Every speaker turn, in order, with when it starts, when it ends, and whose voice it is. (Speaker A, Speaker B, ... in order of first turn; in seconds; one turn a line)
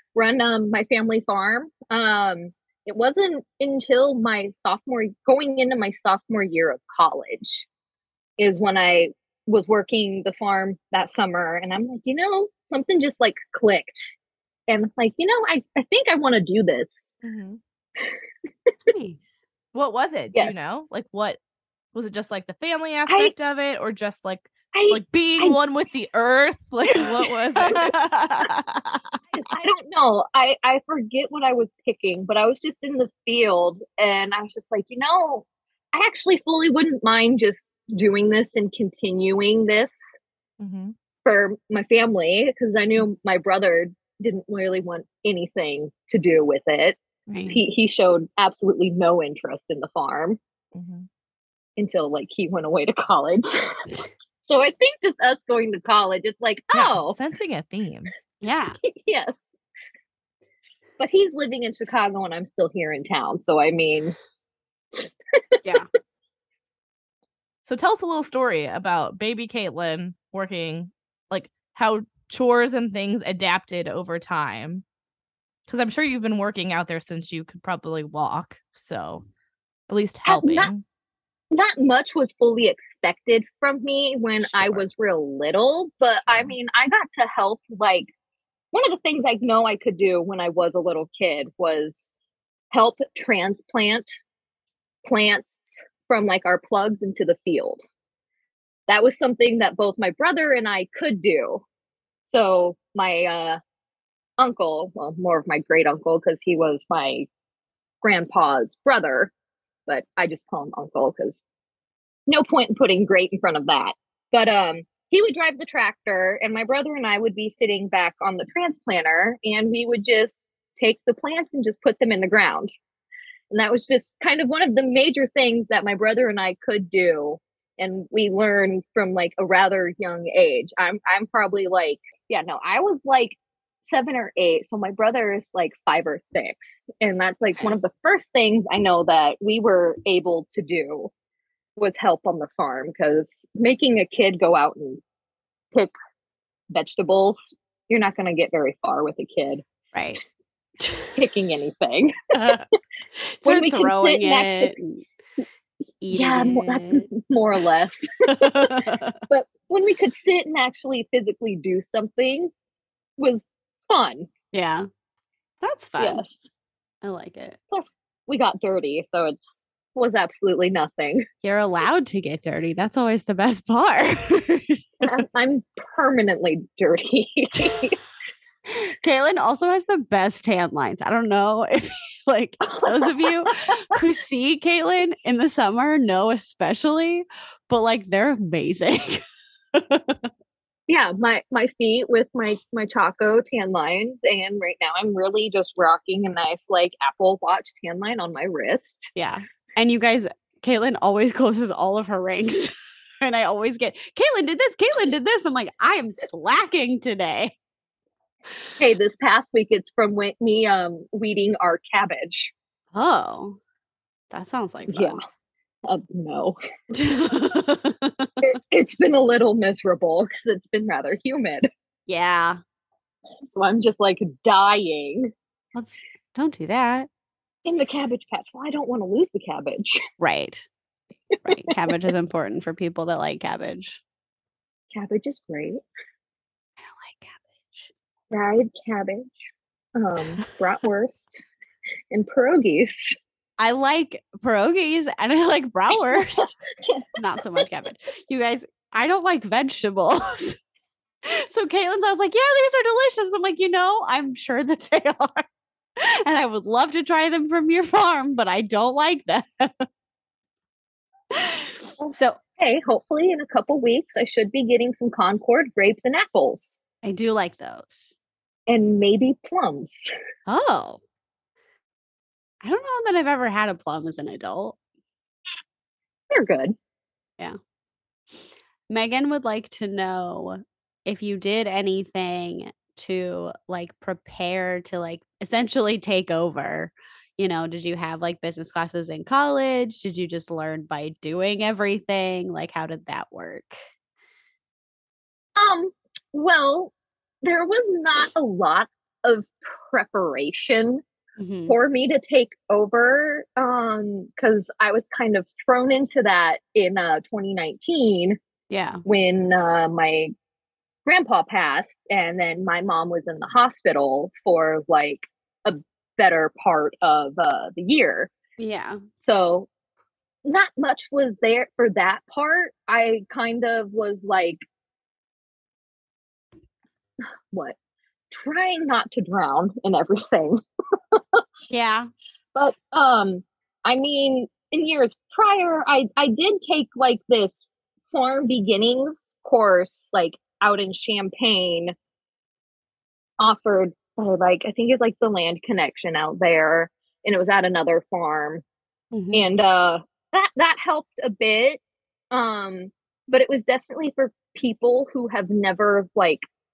Speaker A: 0.1-7.7
Speaker A: 8.4-14.1
Speaker A: 14.7-17.1
Speaker B: 17.2-17.6
Speaker C: 18.9-19.3
Speaker B: 19.7-21.4
Speaker B: 21.9-28.0
Speaker A: 23.1-23.3
Speaker A: 24.7-25.6
Speaker C: 27.6-29.2
Speaker A: 29.3-40.1
Speaker B: 40.6-40.9
Speaker A: 41.2-50.4
Speaker B: 47.3-47.5
Speaker C: 47.3-47.6
Speaker B: 50.7-51.1
Speaker A: 51.8-53.8
Speaker A: 54.4-57.2
Speaker B: 56.7-58.1
Speaker C: 58.4-58.8
Speaker A: 58.8-59.5
Speaker A: 61.0-64.2
Speaker A: 65.6-65.8
Speaker B: 67.6-74.8
Speaker B: 75.7-79.2
Speaker B: 79.9-80.8
Speaker A: 80.2-80.7
Speaker A: 81.5-88.1
Speaker B: 84.5-84.8
Speaker A: 88.7-92.1
Speaker A: 92.7-94.2
Speaker A: 95.0-97.8
Speaker A: 98.9-101.6
Speaker A: 102.3-103.6
Speaker A: 104.4-107.3
Speaker A: 108.0-109.3
Speaker A: 109.9-111.4
Speaker A: 112.3-122.7
Speaker A: 123.5-141.1
Speaker A: 141.8-145.0
Speaker A: 146.7-149.6
Speaker C: 149.9-150.2
Speaker C: 150.8-151.1
Speaker A: 151.2-152.6
Speaker C: 152.3-155.0
Speaker A: 153.4-154.8
Speaker C: 156.0-157.1
Speaker A: 156.1-162.5
Speaker C: 158.3-159.2
Speaker A: 163.2-164.3
Speaker C: 164.5-164.9
Speaker C: 165.6-166.2
Speaker A: 166.0-166.5
Speaker C: 167.0-167.6
Speaker A: 167.7-171.2
Speaker C: 171.4-174.8
Speaker A: 175.0-178.0
Speaker C: 178.7-190.3
Speaker A: 182.7-183.5
Speaker A: 190.9-199.1
Speaker C: 199.2-207.5
Speaker A: 208.8-212.5
Speaker C: 212.9-213.6
Speaker C: 214.3-215.2
Speaker A: 214.9-215.2
Speaker A: 215.8-216.6
Speaker C: 216.9-218.4
Speaker A: 218.4-221.7
Speaker C: 222.1-222.6
Speaker A: 223.4-225.3
Speaker C: 225.7-227.1
Speaker A: 227.6-230.0
Speaker C: 230.2-230.7
Speaker C: 231.4-234.0
Speaker A: 234.9-235.8
Speaker C: 236.8-237.9
Speaker A: 238.3-241.4
Speaker A: 242.1-243.2
Speaker C: 243.6-246.6
Speaker A: 246.1-247.0
Speaker C: 247.2-250.6
Speaker C: 251.2-255.4
Speaker C: 256.0-259.9
Speaker C: 261.3-262.4
Speaker A: 262.0-266.8
Speaker C: 267.0-268.1
Speaker A: 268.7-270.1
Speaker C: 270.5-271.0
Speaker C: 272.6-274.8
Speaker A: 276.3-276.8
Speaker C: 278.9-293.8
Speaker A: 295.6-301.0
Speaker C: 301.4-301.7
Speaker A: 301.7-308.4
Speaker C: 308.7-309.0
Speaker A: 309.0-310.3
Speaker A: 311.1-318.3
Speaker C: 318.6-319.0
Speaker A: 319.2-319.7
Speaker A: 320.4-324.6
Speaker A: 327.5-327.8
Speaker A: 328.3-331.4
Speaker C: 331.7-332.1
Speaker A: 332.5-341.9
Speaker A: 343.4-348.6
Speaker C: 349.1-349.5
Speaker A: 349.3-351.8
Speaker A: 352.3-356.4